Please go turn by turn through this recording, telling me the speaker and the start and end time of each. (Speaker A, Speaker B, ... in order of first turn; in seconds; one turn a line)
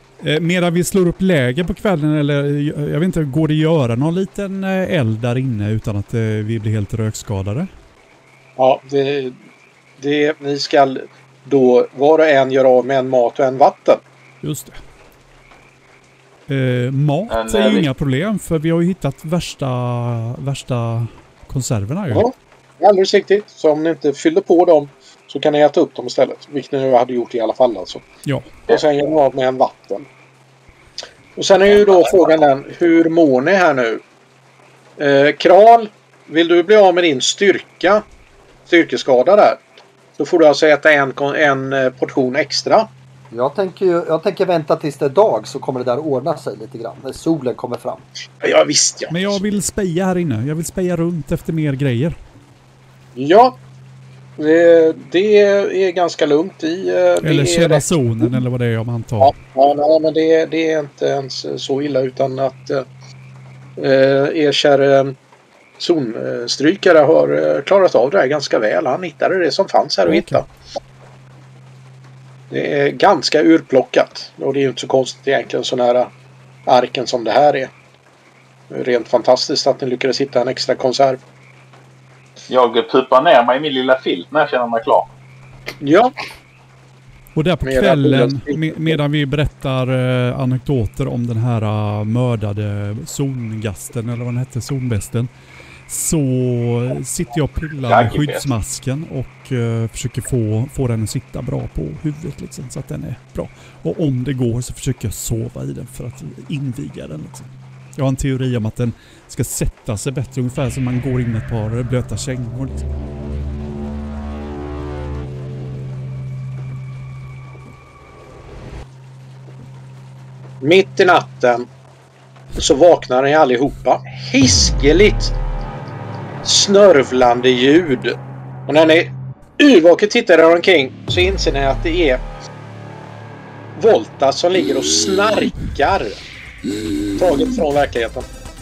Speaker A: 0.2-7.7
Speaker B: 8.6-9.3
Speaker B: 10.0-14.0
Speaker A: 14.4-14.8
Speaker A: 16.5-22.2
Speaker C: 17.3-17.9
Speaker B: 22.1-28.0
Speaker A: 28.2-28.5
Speaker B: 28.7-30.1
Speaker B: 31.4-34.0
Speaker B: 35.0-38.0
Speaker B: 38.7-39.6
Speaker B: 40.2-42.9
Speaker D: 43.3-48.0
Speaker B: 48.4-49.4
Speaker A: 49.1-52.1
Speaker B: 53.1-53.6
Speaker B: 54.4-58.4
Speaker A: 57.2-59.3
Speaker B: 59.2-62.9
Speaker B: 63.8-65.2
Speaker B: 65.8-70.5
Speaker A: 70.1-70.4
Speaker B: 72.5-76.1
Speaker B: 76.7-77.7
Speaker B: 78.7-81.2
Speaker C: 82.5-85.1
Speaker B: 85.8-86.1
Speaker A: 87.3-95.3
Speaker B: 87.6-89.0
Speaker A: 95.9-112.8
Speaker C: 97.9-98.5
Speaker B: 120.6-121.7
Speaker B: 122.5-125.3
Speaker B: 126.4-128.2
Speaker B: 128.7-132.2
Speaker B: 133.8-136.2
Speaker B: 137.2-138.3